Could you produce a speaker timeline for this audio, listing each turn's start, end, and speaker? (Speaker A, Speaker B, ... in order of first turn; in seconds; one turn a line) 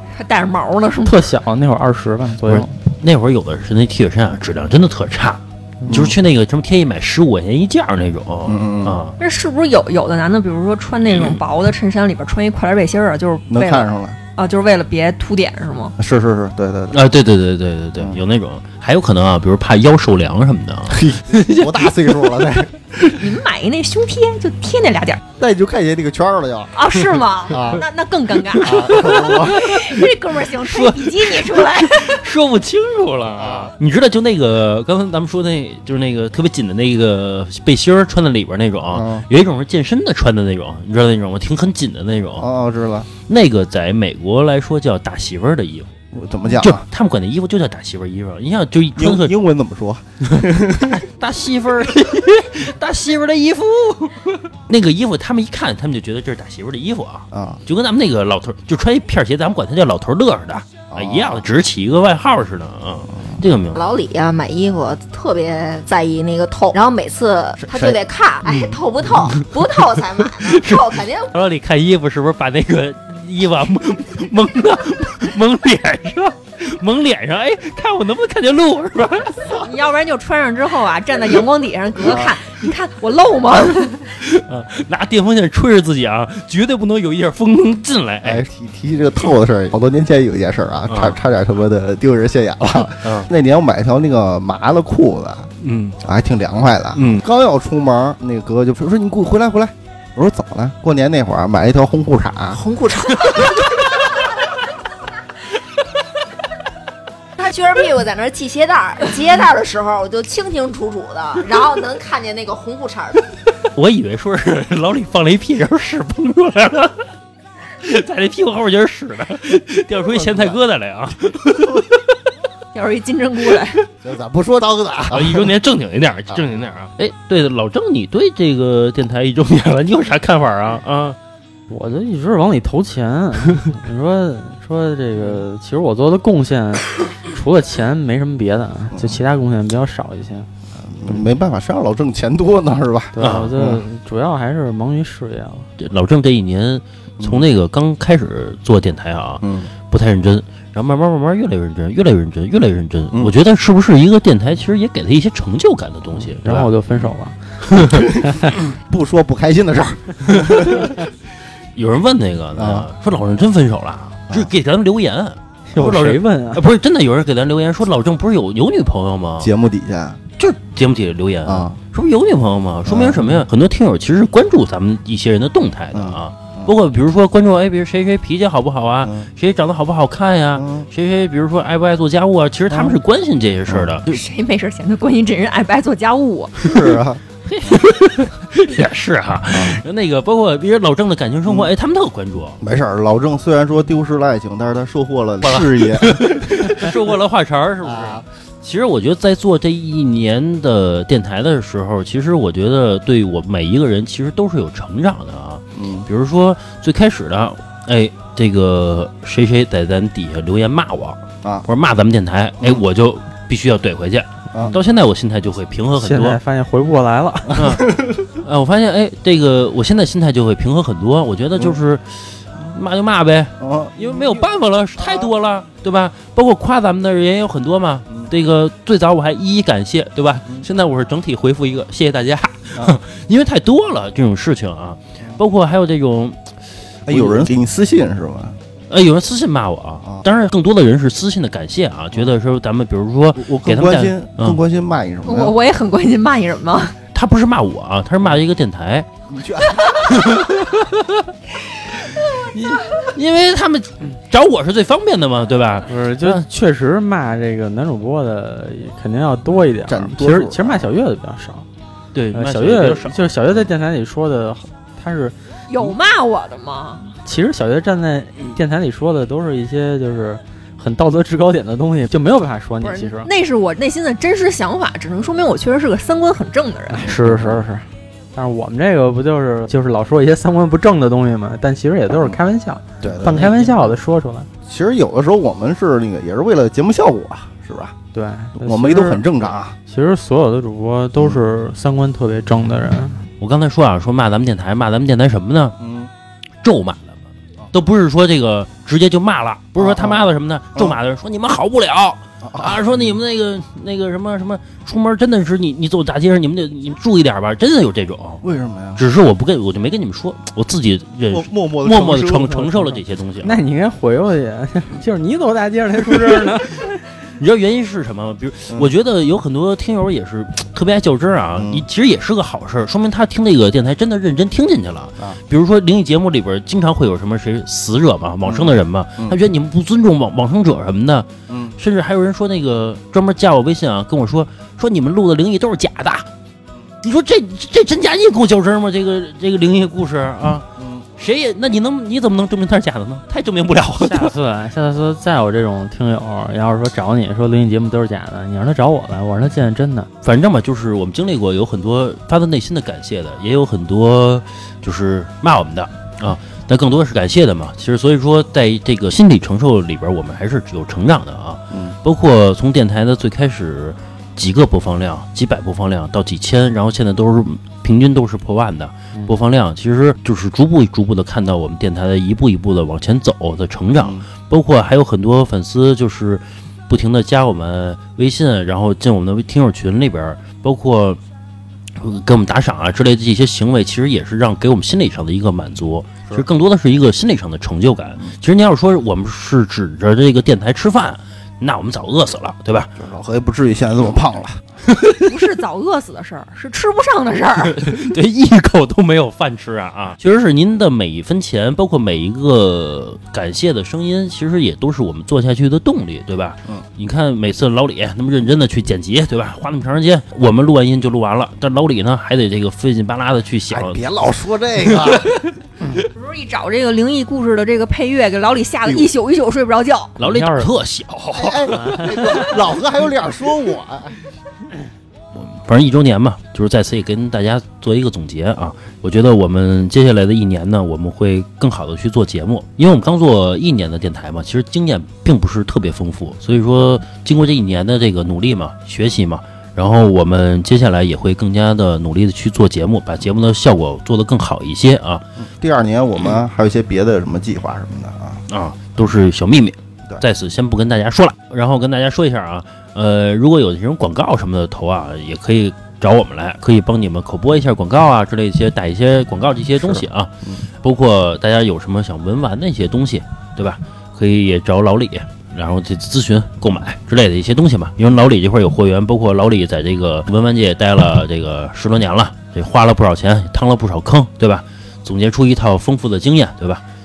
Speaker A: 0.1-1.2
Speaker B: 1.0-2.7
Speaker C: 2.5-9.1
Speaker D: 5.9-6.2
Speaker D: 8.4-9.0
Speaker A: 9.2-15.9
Speaker C: 11.1-11.4
Speaker D: 13.5-14.2
Speaker D: 16.0-17.0
Speaker C: 16.9-22.6
Speaker D: 20.9-23.0
Speaker A: 23.1-25.2
Speaker D: 25.4-26.8
Speaker A: 26.7-32.2
Speaker D: 27.5-27.8
Speaker C: 28.6-30.0
Speaker D: 28.6-29.7
Speaker C: 30.6-42.5
Speaker D: 33.4-33.7
Speaker D: 38.9-39.2
Speaker D: 42.4-43.1
Speaker C: 43.3-45.9
Speaker D: 46.1-46.8
Speaker C: 46.5-49.3
Speaker D: 49.0-51.0
Speaker C: 50.8-63.8
Speaker D: 57.3-57.6
Speaker D: 60.9-61.4
Speaker E: 63.7-71.3
Speaker C: 68.5-68.7
Speaker C: 69.3-79.6
Speaker A: 79.5-84.1
Speaker D: 82.0-82.3
Speaker C: 84.2-88.4
Speaker D: 88.2-102.6
Speaker C: 90.9-91.2
Speaker C: 93.0-93.3
Speaker C: 95.6-96.0
Speaker C: 96.9-97.2
Speaker E: 102.5-103.7
Speaker E: 107.4-113.3
Speaker C: 113.7-117.1
Speaker C: 117.8-122.0
Speaker D: 120.1-120.5
Speaker A: 122.7-123.8
Speaker D: 124.0-125.5
Speaker C: 125.1-131.2
Speaker B: 131.7-140.5
Speaker D: 138.9-139.2
Speaker D: 140.8-143.8
Speaker B: 143.1-145.7
Speaker C: 143.2-143.5
Speaker C: 145.8-156.7
Speaker D: 147.2-147.4
Speaker D: 149.4-149.7
Speaker B: 156.2-157.4
Speaker C: 157.7-158.1
Speaker D: 157.9-160.9
Speaker B: 158.2-158.5
Speaker C: 160.3-161.0
Speaker C: 161.8-169.5
Speaker D: 162.6-162.9
Speaker B: 165.7-166.7
Speaker D: 169.4-170.2
Speaker C: 170.4-184.1
Speaker D: 171.4-171.8
Speaker D: 172.8-173.4
Speaker D: 175.9-176.7
Speaker D: 179.0-179.3
Speaker D: 180.6-180.9
Speaker D: 182.7-183.0
Speaker D: 183.7-183.9
Speaker A: 184.1-186.5
Speaker D: 186.6-187.2
Speaker C: 186.6-186.9
Speaker C: 187.4-192.6
Speaker D: 189.5-189.8
Speaker D: 192.6-196.9
Speaker C: 195.4-216.4
Speaker D: 197.8-198.2
Speaker D: 205.8-206.1
Speaker B: 216.0-217.6
Speaker C: 217.5-236.5
Speaker D: 217.7-218.2
Speaker D: 223.6-224.5
Speaker D: 225.0-225.3
Speaker C: 237.1-237.5
Speaker D: 237.1-238.6
Speaker C: 238.9-244.6
Speaker D: 243.3-245.5
Speaker A: 245.2-246.9
Speaker C: 247.1-249.1
Speaker D: 249.3-250.4
Speaker C: 250.0-251.3
Speaker C: 251.9-256.4
Speaker B: 255.9-261.6
Speaker D: 259.9-260.9
Speaker C: 262.1-263.6
Speaker B: 262.3-265.3
Speaker A: 265.7-267.1
Speaker B: 267.2-273.3
Speaker A: 272.8-277.1
Speaker B: 276.9-284.5
Speaker D: 277.1-277.6
Speaker D: 283.0-283.8
Speaker D: 284.7-288.0
Speaker B: 288.1-289.2
Speaker D: 288.5-289.8
Speaker B: 289.9-293.2
Speaker C: 293.4-295.8
Speaker D: 295.8-296.1
Speaker C: 296.6-297.2
Speaker C: 297.7-308.4
Speaker D: 299.8-301.0
Speaker D: 302.4-303.1
Speaker D: 308.4-309.0
Speaker C: 309.0-313.5
Speaker D: 311.3-312.7
Speaker B: 313.4-317.0
Speaker C: 317.4-336.3
Speaker D: 321.6-321.8
Speaker D: 328.4-329.4
Speaker D: 331.5-331.8
Speaker C: 337.0-340.6
Speaker D: 340.8-341.0
Speaker C: 341.2-344.3
Speaker B: 344.0-350.1
Speaker C: 350.2-381.2
Speaker D: 374.0-374.2
Speaker C: 381.9-392.9
Speaker D: 392.9-394.6
Speaker C: 394.9-395.2
Speaker A: 395.2-397.9
Speaker C: 397.7-414.0
Speaker D: 413.7-415.4
Speaker C: 414.9-415.4
Speaker A: 416.1-420.1
Speaker D: 418.8-419.1
Speaker C: 420.2-422.5
Speaker B: 420.2-420.7
Speaker D: 421.3-424.2
Speaker B: 421.8-422.3
Speaker C: 425.3-445.2
Speaker D: 445.4-448.4
Speaker C: 448.5-460.3
Speaker D: 459.8-460.6
Speaker C: 460.8-476.8